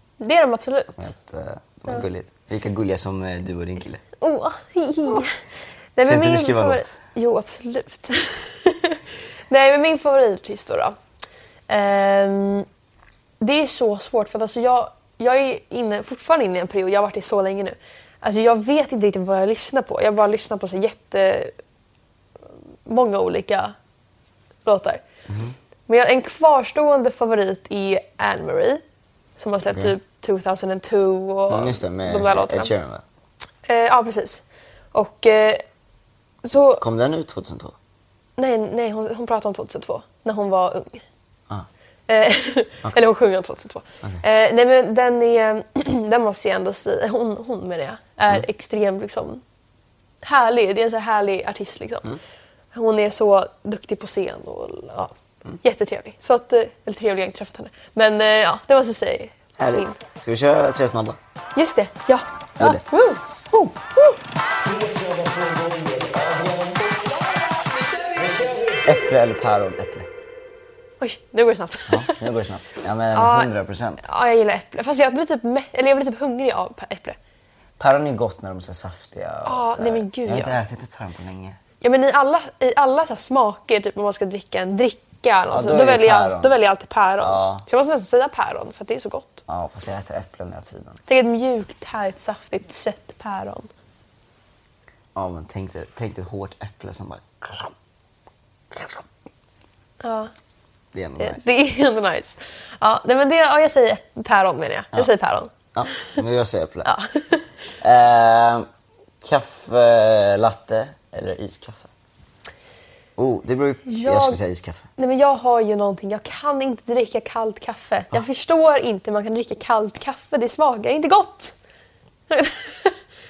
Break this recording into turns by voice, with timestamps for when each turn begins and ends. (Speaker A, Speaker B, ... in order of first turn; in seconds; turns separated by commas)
Speaker A: 0.2-1.1, Speaker B: 0.9-4.0, Speaker A: 4.2-5.4, Speaker A: 6.0-11.0, Speaker B: 6.0-7.0, Speaker A: 11.7-12.7, Speaker A: 13.4-21.5, Speaker A: 22.9-23.8, Speaker A: 24.6-25.0, Speaker B: 25.3-25.6, Speaker A: 25.9-28.8, Speaker A: 29.4-32.7, Speaker B: 29.7-30.0, Speaker B: 31.5-33.0, Speaker A: 33.7-35.6, Speaker A: 36.5-36.8, Speaker B: 36.8-37.8, Speaker A: 38.4-41.0, Speaker A: 42.1-49.4, Speaker A: 50.2-52.2, Speaker A: 52.7-60.0, Speaker B: 59.6-61.2, Speaker A: 61.5-64.2, Speaker B: 64.6-66.8, Speaker A: 66.9-68.2, Speaker B: 68.2-70.1, Speaker A: 71.0-72.3, Speaker B: 71.9-74.0, Speaker A: 73.1-77.2, Speaker B: 77.8-81.6, Speaker A: 79.5-80.6, Speaker A: 81.8-89.4, Speaker B: 85.5-86.6, Speaker B: 87.2-87.7, Speaker B: 89.5-91.0, Speaker A: 91.1-93.7, Speaker B: 95.2-97.7, Speaker B: 98.7-99.0, Speaker A: 100.0-100.3, Speaker B: 100.9-101.5, Speaker A: 101.2-106.2, Speaker B: 105.7-106.9, Speaker A: 106.8-107.4, Speaker B: 107.8-108.7, Speaker B: 109.2-111.9, Speaker B: 113.2-114.9, Speaker A: 113.9-114.4, Speaker A: 115.0-121.6, Speaker A: 122.3-123.0